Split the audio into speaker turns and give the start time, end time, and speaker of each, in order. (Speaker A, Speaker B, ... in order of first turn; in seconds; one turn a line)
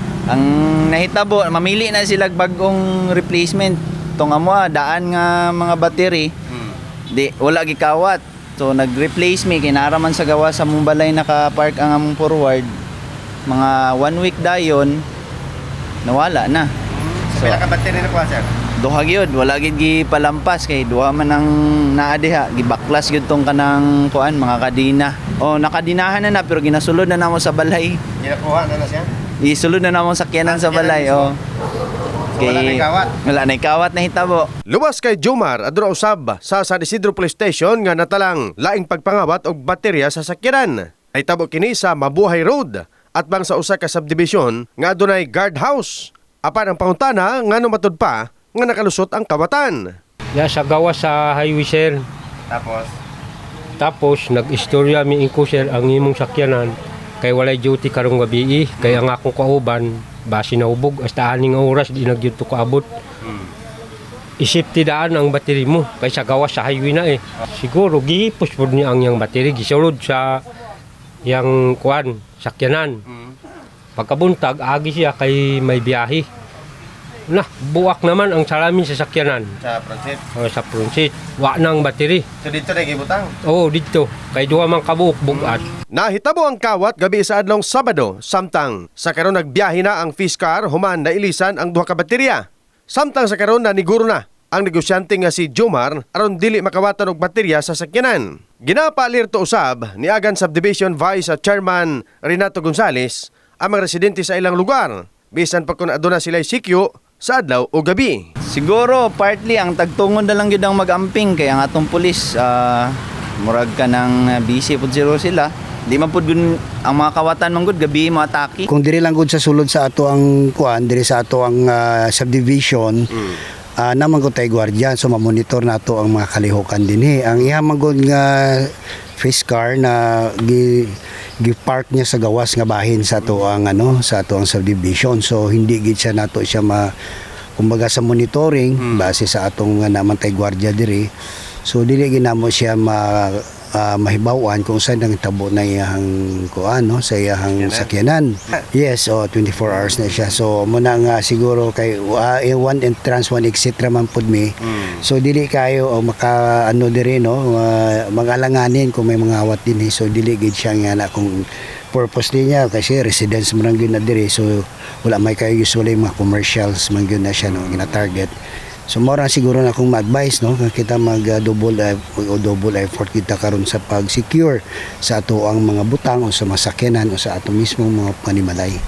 Speaker A: 0.3-6.3
Speaker A: 7.1-12.7
Speaker A: 13.5-15.0
Speaker A: 16.0-16.7
Speaker B: 16.9-18.5
Speaker A: 17.3-17.6
Speaker A: 18.8-28.0
Speaker B: 28.2-29.1
Speaker A: 29.4-31.3
Speaker B: 30.4-31.3
Speaker B: 32.4-33.1
Speaker A: 32.4-34.5
Speaker B: 34.7-49.8
Speaker C: 50.3-52.0
Speaker B: 52.5-52.9
Speaker C: 53.8-62.8
Speaker C: 64.4-70.4
Speaker C: 71.2-73.0
Speaker C: 74.0-76.2
Speaker C: 77.3-79.5
Speaker B: 79.6-80.2
Speaker C: 80.3-82.2
Speaker B: 82.4-83.3
Speaker C: 83.5-85.7
Speaker B: 85.9-108.2
Speaker A: 108.5-118.7
Speaker D: 118.7-136.9
Speaker D: 137.6-141.1
Speaker D: 141.7-168.3
Speaker B: 167.4-167.8
Speaker D: 168.9-178.8